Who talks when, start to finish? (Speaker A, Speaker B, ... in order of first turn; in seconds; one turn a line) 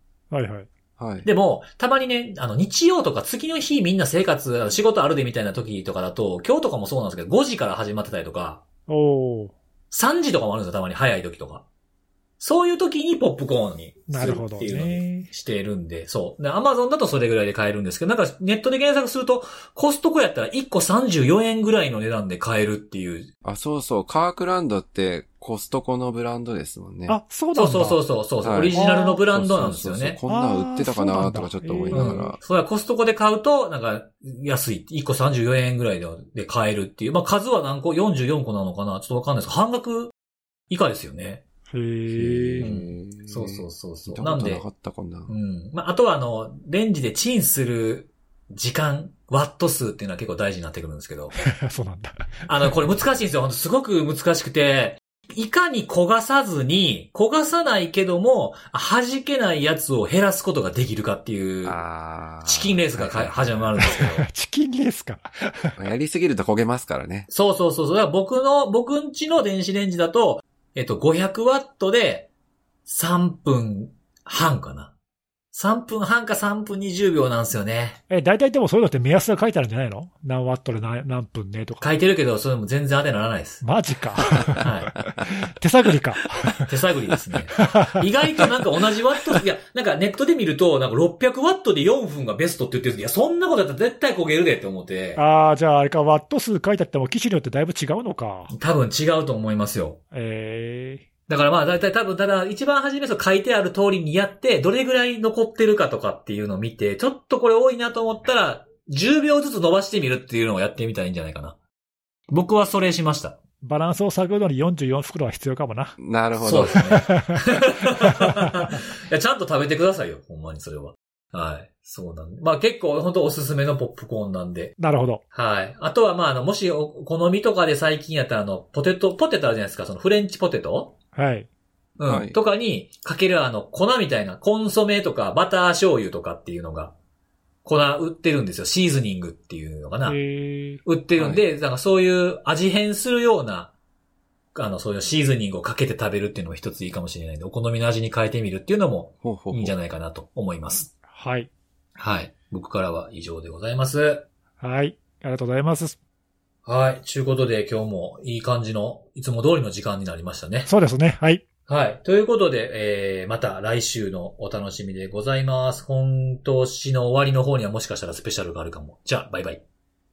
Speaker A: 0.3-0.7
Speaker B: 1.0-1.3
Speaker C: 1.2-8.6
Speaker A: 8.9-9.5
Speaker C: 9.9-11.6
Speaker C: 12.4-23.3
Speaker A: 14.1-15.3
Speaker B: 23.4-27.2
Speaker A: 27.1-28.0
Speaker C: 27.6-30.2
Speaker B: 28.4-32.4
Speaker A: 28.7-29.2
Speaker A: 30.3-32.4
Speaker C: 31.9-40.1
Speaker C: 40.7-41.4
Speaker A: 41.7-42.7
Speaker B: 42.1-45.3
Speaker C: 42.6-44.6
Speaker C: 45.3-51.4
Speaker A: 51.5-52.7
Speaker C: 52.5-61.8
Speaker B: 61.6-63.7
Speaker C: 62.4-64.3
Speaker A: 63.8-65.8
Speaker B: 65.8-67.3
Speaker C: 67.3-72.3
Speaker C: 72.8-74.9
Speaker C: 75.5-78.0
Speaker A: 78.1-81.8
Speaker C: 81.8-83.6
Speaker A: 83.6-86.7
Speaker C: 84.6-85.0
Speaker C: 86.5-95.2
Speaker A: 87.5-88.5
Speaker A: 95.2-98.5
Speaker C: 98.5-100.0
Speaker A: 100.1-101.0
Speaker C: 101.3-111.6
Speaker C: 112.3-113.4
Speaker A: 113.6-116.0
Speaker B: 116.0-116.9
Speaker C: 116.4-124.7
Speaker A: 116.8-117.4
Speaker A: 118.0-118.7
Speaker A: 124.8-125.2
Speaker C: 125.3-130.9
Speaker A: 131.1-131.5
Speaker C: 132.0-136.9
Speaker B: 132.1-132.3
Speaker C: 137.6-140.2
Speaker A: 140.1-140.8
Speaker C: 140.8-143.7
Speaker B: 141.2-141.4
Speaker C: 144.5-150.9
Speaker B: 149.2-149.8
Speaker A: 151.1-151.5
Speaker C: 152.0-154.2
Speaker A: 154.6-156.0
Speaker C: 156.6-160.7
Speaker A: 160.7-161.4
Speaker C: 161.7-169.6